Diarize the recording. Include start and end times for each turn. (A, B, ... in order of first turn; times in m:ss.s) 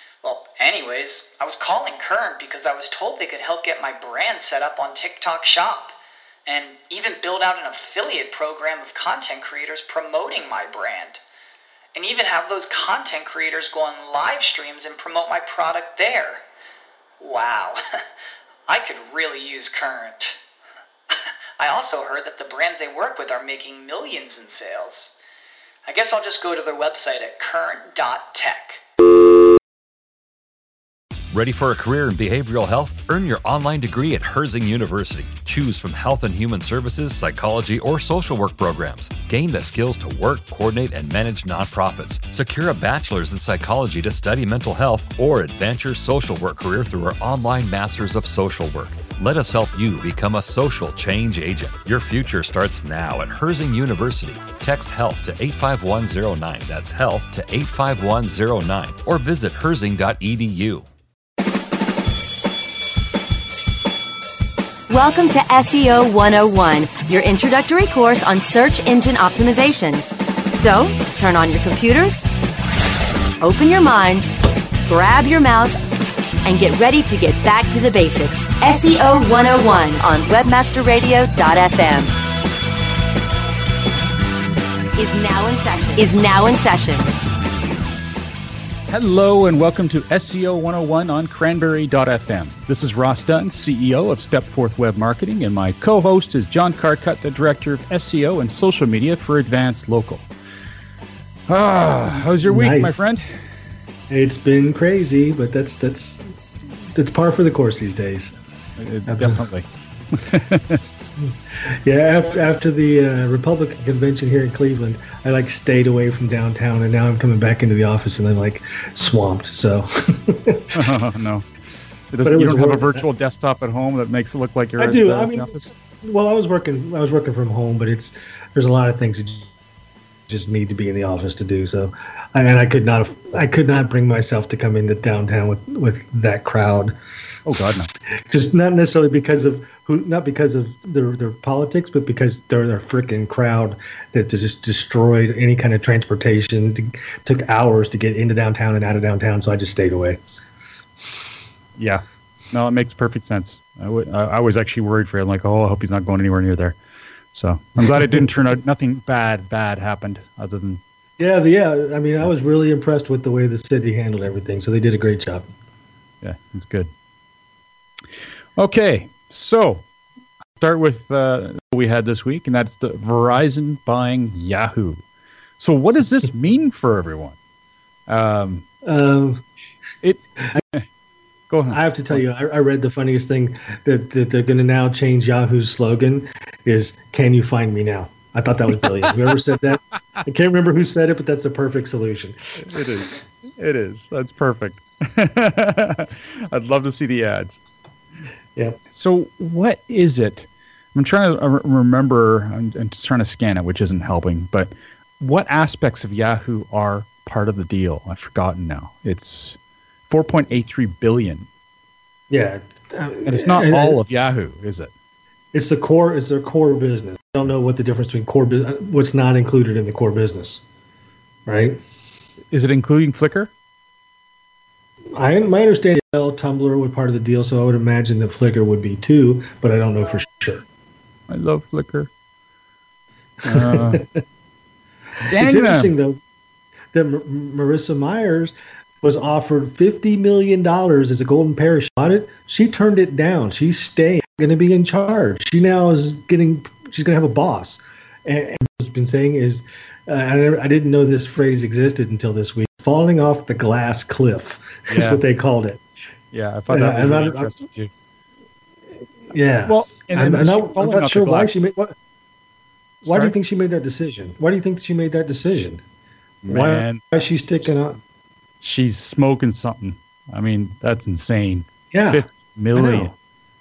0:00.2-0:11.2 A
0:12.0-0:16.4 A
0:17.2-0:17.8 A
0:18.7-0:20.4 A
0:21.6-0:25.1 A
0:25.9-0:28.8 A
0:31.3-1:00.9 B
1:04.9-1:12.2 C
1:13.4-1:14.3 C
1:14.9-1:15.8 C
1:16.5-1:22.2 C
1:25.0-1:27.1 C
1:28.9-1:40.3 D
1:41.5-1:43.4 D
1:42.4-1:42.9 E
1:44.1-1:46.4 E
1:46.9-1:48.4 E
1:48.8-1:50.8 D
1:49.1-1:49.4 E
1:51.2-2:00.7 E
2:00.7-2:01.5 D
2:02.1-2:05.7 D
2:02.2-2:03.0 E
2:04.8-2:09.5 E
2:10.3-2:16.9 E
2:17.5-2:17.9 D
2:18.1-2:30.2 E
2:31.8-2:36.8 D
2:37.3-2:40.8 D
2:41.2-2:45.5 E
2:46.2-2:46.9 D
2:48.6-2:49.8 D
2:50.6-2:55.0 D
2:55.6-2:57.4 D
2:58.1-2:58.7 D
2:58.8-2:59.4 E
3:00.0-3:00.9 D
3:01.5-3:02.2 D
3:01.7-3:12.6 E
3:12.6-3:17.6 D
3:18.9-3:31.5 D
3:32.3-3:34.0 E
3:33.2-3:34.9 D
3:35.5-3:40.6 E
3:41.5-3:41.8 E
3:42.5-3:43.5 D
3:45.1-3:50.6 E
3:51.3-3:52.1 D
3:53.4-3:54.0 D
3:53.5-3:54.2 E
3:55.3-3:55.9 D
3:55.3-3:56.2 E
3:56.9-4:15.9 E
4:14.9-4:15.2 D
4:16.3-4:17.9 D
4:16.7-4:17.6 E
4:19.3-4:22.0 E
4:19.7-4:21.5 D
4:23.0-4:25.8 E
4:23.0-4:23.4 D
4:26.4-4:27.0 D
4:26.5-4:28.0 E
4:28.6-4:33.1 D
4:31.9-4:33.1 E